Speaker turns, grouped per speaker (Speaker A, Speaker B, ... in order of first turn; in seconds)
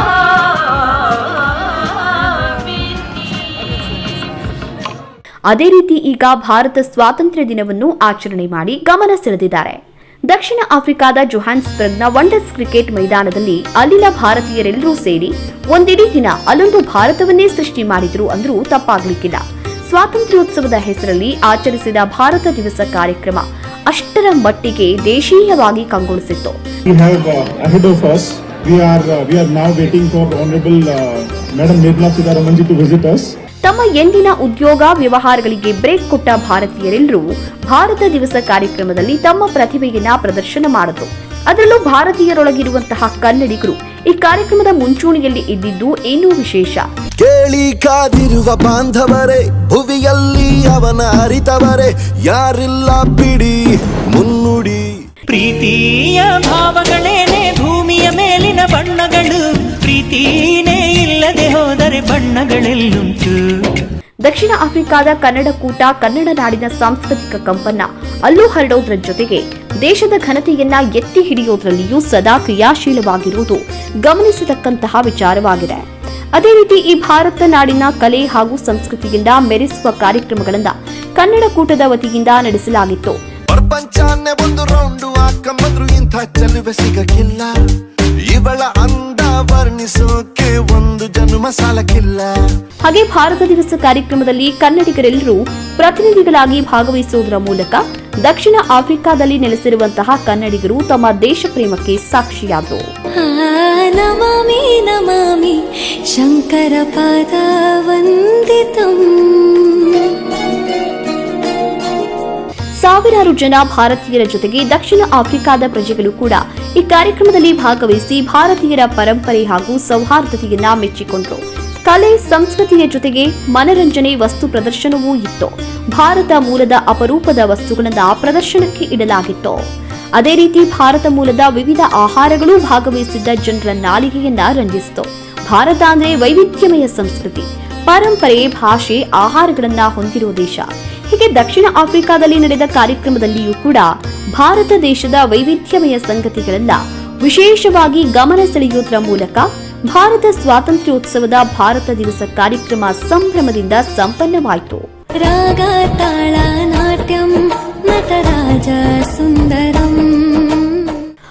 Speaker A: 5.5-26.6, 33.6-46.9, 64.2-83.2, 92.8-102.8, 112.8-129.6, 130.2-154.8
Speaker B: 26.9-33.4
Speaker C: 47.2-54.8, 83.5-87.5, 88.3-92.3
Speaker D: 55.3-63.5
Speaker E: 103.2-105.6, 106.2-110.2, 155.2-157.3, 157.9-161.0